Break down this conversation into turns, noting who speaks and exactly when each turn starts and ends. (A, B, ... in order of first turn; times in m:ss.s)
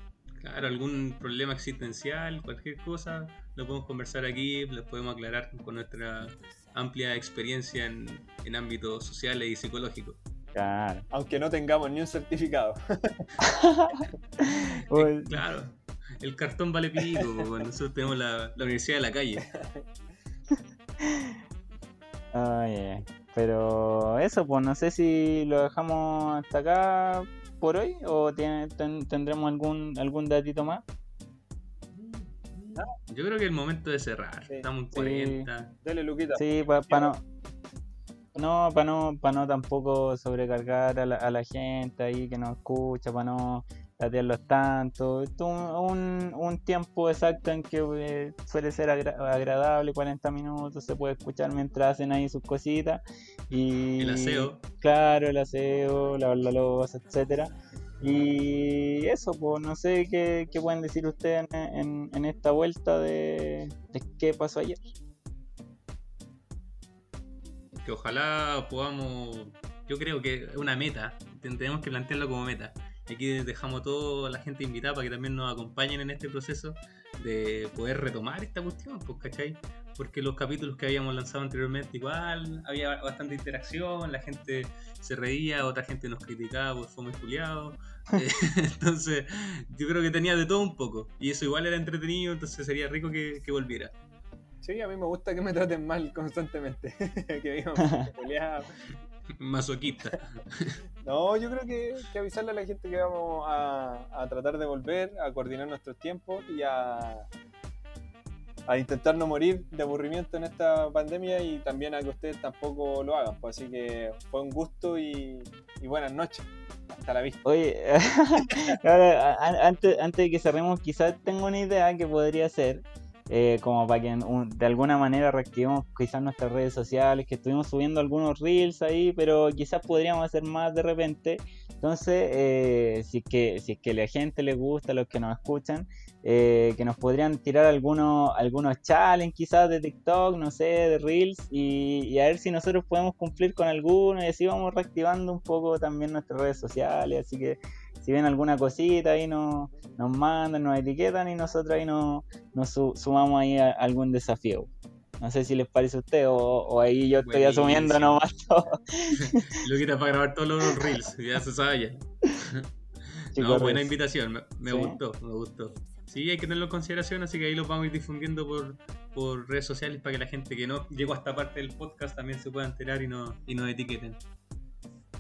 0:00.4-0:10.2 A
0:10.5-0:11.0 B
0:11.1-0:13.3 C
0:13.4-0:15.4 B
0:14.9-0:19.4 A
0:19.5-0:19.8 C
0:21.0-0:21.4 B
0:22.3-0:30.8 B
0:32.0-0:35.7 A
0:34.9-0:35.5 B
0:35.8-0:37.2 C
0:36.4-0:37.2 B
0:38.3-1:05.0 B
0:54.0-0:54.6 A
1:07.8-1:33.9 A
1:34.6-1:38.7 C
1:37.8-1:38.1 B
1:39.4-1:40.8 A
1:41.0-1:47.3 C
1:48.7-1:57.4 C
1:57.4-2:34.7 B
2:35.2-2:39.5 B
2:37.2-2:38.2 A
2:39.2-2:54.2 A
2:40.7-2:41.0 B
2:43.3-2:44.0 B
2:44.7-2:45.0 B